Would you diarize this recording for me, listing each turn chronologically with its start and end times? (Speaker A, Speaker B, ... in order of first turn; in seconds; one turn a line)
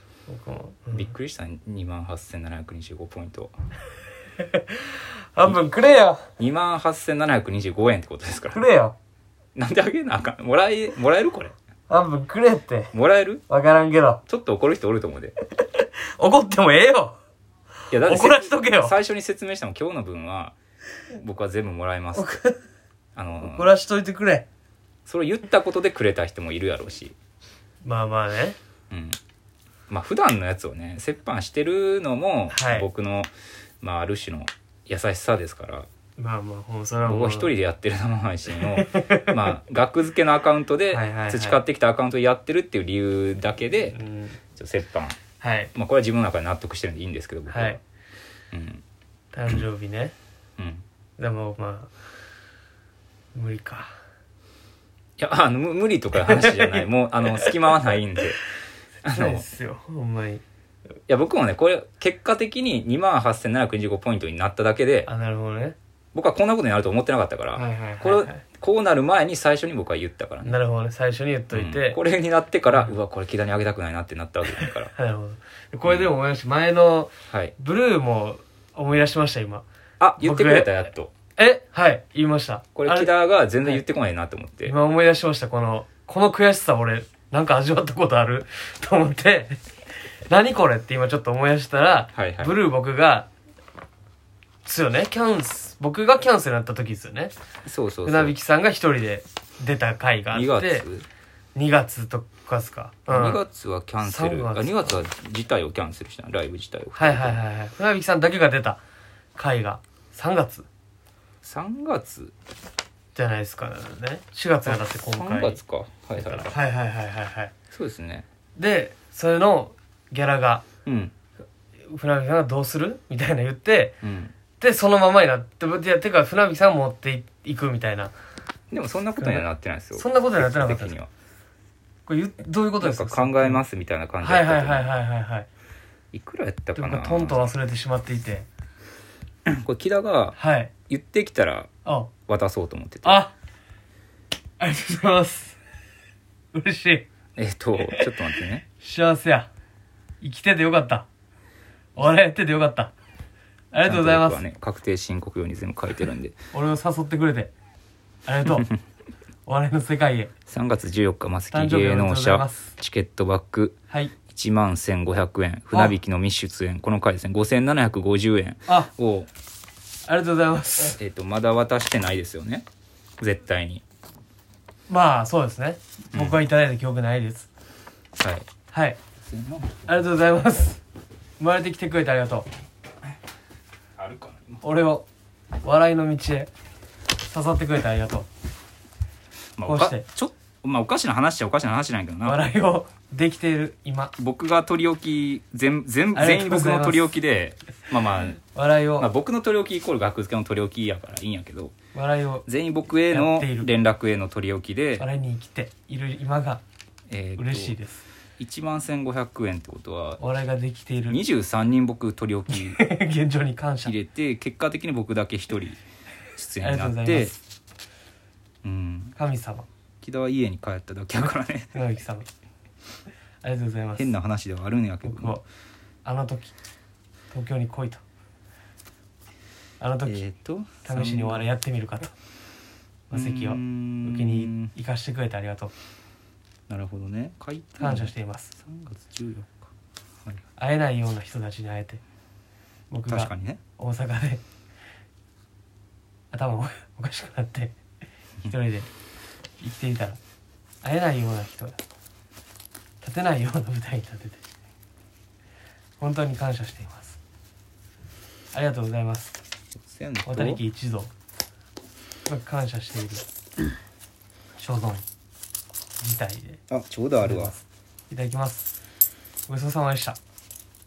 Speaker A: 0.3-1.1
Speaker B: 0.9-3.5
Speaker A: 4.4-6.3
Speaker B: 6.4-8.7
Speaker A: 8.5-8.9
Speaker B: 9.6-11.5
Speaker A: 11.9-12.9
Speaker B: 12.9-13.4
Speaker A: 13.5-14.2
Speaker B: 14.3-15.3
Speaker A: 15.5-17.2
Speaker A: 17.9-18.9
Speaker B: 17.9-20.6
Speaker B: 21.1-22.3
Speaker A: 22.1-22.6
Speaker B: 23.1-23.7
Speaker A: 23.4-24.4
Speaker B: 25.1-27.1
Speaker A: 27.8-28.6
Speaker B: 28.9-29.2
Speaker B: 29.9-33.3
Speaker A: 32.5-32.9
Speaker B: 33.8-35.9
Speaker A: 36.2-37.5
Speaker B: 37.0-44.0
Speaker A: 38.5-39.6
Speaker A: 40.9-41.6
Speaker A: 43.8-44.4
Speaker B: 44.5-45.2
Speaker A: 45.4-45.7
Speaker B: 45.7-47.8
Speaker A: 47.5-47.8
Speaker B: 48.5-48.8
Speaker A: 49.3-50.1
Speaker B: 50.6-50.8
Speaker A: 51.2-52.0
Speaker A: 53.3-54.0
Speaker B: 55.2-58.4
Speaker A: 56.2-57.5
Speaker A: 59.0-60.4
Speaker B: 59.0-59.5
Speaker B: 61.1-65.1
Speaker A: 65.0-65.8
Speaker B: 66.1-70.5
Speaker A: 67.5-68.4
Speaker A: 70.4-72.0
Speaker B: 71.5-74.9
Speaker A: 74.6-79.6
Speaker B: 75.9-76.1
Speaker B: 77.3-77.5
Speaker B: 80.0-81.1
Speaker A: 80.2-80.7
Speaker A: 81.4-83.1
Speaker B: 82.7-84.7
Speaker A: 84.7-89.6
Speaker A: 90.1-93.3
Speaker B: 92.1-92.5
Speaker A: 94.6-97.3
Speaker B: 97.6-98.3
Speaker A: 98.0-100.8
Speaker B: 100.3-101.0
Speaker A: 101.5-103.4
Speaker B: 103.1-107.4
Speaker A: 104.0-105.0
Speaker A: 107.0-108.8
Speaker A: 109.3-110.7
Speaker B: 111.4-112.3
Speaker A: 113.1-115.6
Speaker B: 114.6-116.6
Speaker A: 116.1-117.5
Speaker B: 117.7-118.2
Speaker A: 118.5-120.6
Speaker B: 120.8-121.1
Speaker A: 121.8-124.0
Speaker B: 124.0-124.3
Speaker A: 124.6-128.1
Speaker B: 128.7-131.1
Speaker A: 129.2-131.0
Speaker A: 132.1-133.6
Speaker B: 132.8-134.9
Speaker A: 134.2-135.5
Speaker B: 136.1-137.4
Speaker A: 136.7-138.5
Speaker B: 139.4-140.4
Speaker A: 140.4-140.7
Speaker B: 140.9-141.7
Speaker A: 141.8-142.1
Speaker B: 142.3-143.2
Speaker A: 143.0-143.3
Speaker A: 144.6-145.6
Speaker A: 146.5-147.1
Speaker B: 147.3-148.6
Speaker A: 147.8-149.5
Speaker A: 150.2-151.1
Speaker A: 151.9-152.9
Speaker A: 153.7-154.4
Speaker B: 153.8-156.3
Speaker A: 156.5-157.5
Speaker A: 158.2-158.7
Speaker A: 159.4-160.3
Speaker B: 160.5-163.8
Speaker A: 161.5-162.7
Speaker B: 164.3-169.3
Speaker A: 170.1-171.0
Speaker B: 171.0-172.7
Speaker B: 173.2-173.8
Speaker A: 174.9-177.5
Speaker B: 176.1-176.4
Speaker B: 178.2-178.5
Speaker A: 178.7-179.0
Speaker B: 179.2-180.1
Speaker A: 179.9-180.8
Speaker A: 181.4-182.5
Speaker B: 183.9-184.6
Speaker A: 184.6-185.1
Speaker A: 185.6-186.5
Speaker A: 187.3-188.3
Speaker B: 189.6-192.4
Speaker A: 189.6-190.0
Speaker A: 192.2-194.1
Speaker B: 194.2-198.4
Speaker A: 196.1-197.1
Speaker A: 198.4-199.1
Speaker B: 199.0-201.7
Speaker A: 201.9-202.4
Speaker B: 202.4-205.1
Speaker A: 203.1-203.7
Speaker A: 205.0-206.6
Speaker B: 207.1-207.8
Speaker A: 207.3-208.0
Speaker B: 208.4-210.2
Speaker A: 210.2-211.2
Speaker B: 211.1-212.8
Speaker A: 212.5-213.9
Speaker B: 213.8-215.8
Speaker B: 216.3-217.3
Speaker A: 216.6-217.4
Speaker B: 218.6-219.2
Speaker A: 219.2-219.7
Speaker B: 220.0-221.8
Speaker A: 221.7-222.3
Speaker A: 223.4-224.1
Speaker B: 224.0-225.4
Speaker A: 225.0-225.4
Speaker A: 226.0-226.5
Speaker A: 227.3-228.0
Speaker A: 229.8-230.3
Speaker B: 230.0-231.5
Speaker A: 230.8-232.1
Speaker A: 233.1-235.7
Speaker B: 233.1-234.7
Speaker B: 236.7-239.7
Speaker A: 237.8-238.5
Speaker A: 240.6-242.0
Speaker A: 242.9-244.4
Speaker B: 243.1-243.6
Speaker A: 246.3-247.8
Speaker A: 248.4-248.9
Speaker A: 249.6-250.2
Speaker A: 250.8-251.8
Speaker A: 253.0-254.4
Speaker A: 256.0-257.2
Speaker A: 258.5-259.4
Speaker B: 259.8-260.6
Speaker A: 260.2-261.1
Speaker A: 262.2-263.2
Speaker A: 264.6-265.0
Speaker A: 266.0-266.6
Speaker B: 266.7-267.5
Speaker A: 267.2-268.8
Speaker A: 269.5-270.2